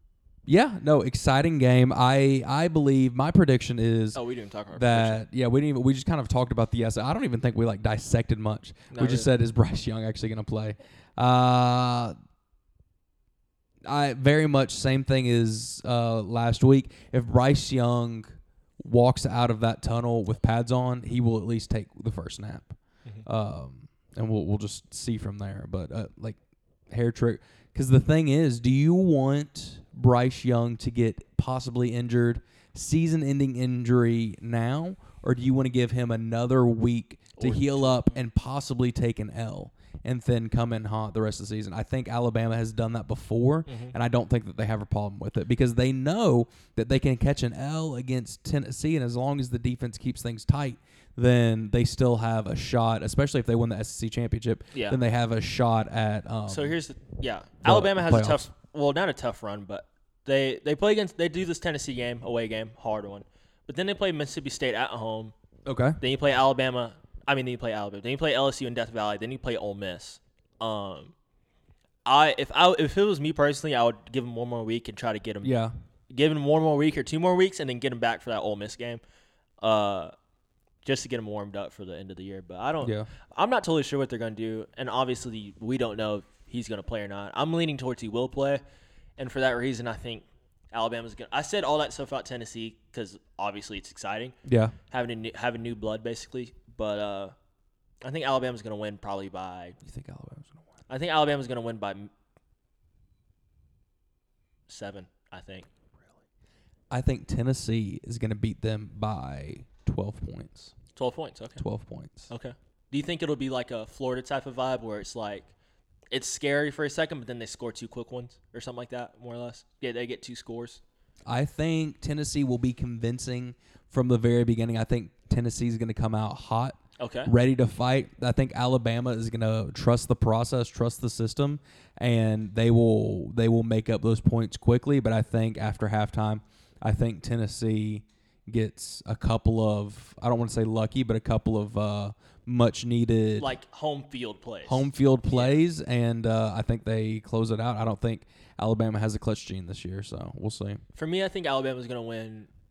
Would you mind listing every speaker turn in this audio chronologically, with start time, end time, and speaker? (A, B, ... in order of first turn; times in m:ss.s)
0:00.5-0:04.2 A
0:04.2-0:05.2 B
0:04.7-0:12.2 A
0:08.9-0:09.3 B
0:13.9-0:18.3 A
0:18.8-0:26.4 A
0:26.9-0:56.7 A
0:37.4-0:38.1 B
0:43.7-0:43.9 B
0:56.5-1:05.3 B
0:57.6-0:58.5 A
1:05.7-1:06.0 A
1:06.0-1:11.1 B
1:12.0-1:15.6 B
1:15.4-1:15.7 A
1:16.1-1:19.0 B
1:19.6-1:20.1 B
1:20.8-1:28.6 B
1:22.8-1:23.1 A
1:29.2-1:34.4 B
1:34.4-1:34.8 A
1:34.9-1:37.3 B
1:38.0-1:39.8 B
1:39.8-1:40.6 A
1:40.9-1:42.1 B
1:44.7-1:45.7 B
1:46.9-1:50.7 A
1:51.0-1:51.6 B
1:51.6-1:52.3 A
1:52.3-1:55.5 B
1:56.1-2:00.8 B
2:01.3-2:23.6 A
2:07.0-2:07.3 B
2:23.4-2:25.6 B
2:24.7-2:30.8 A
2:31.0-2:32.5 B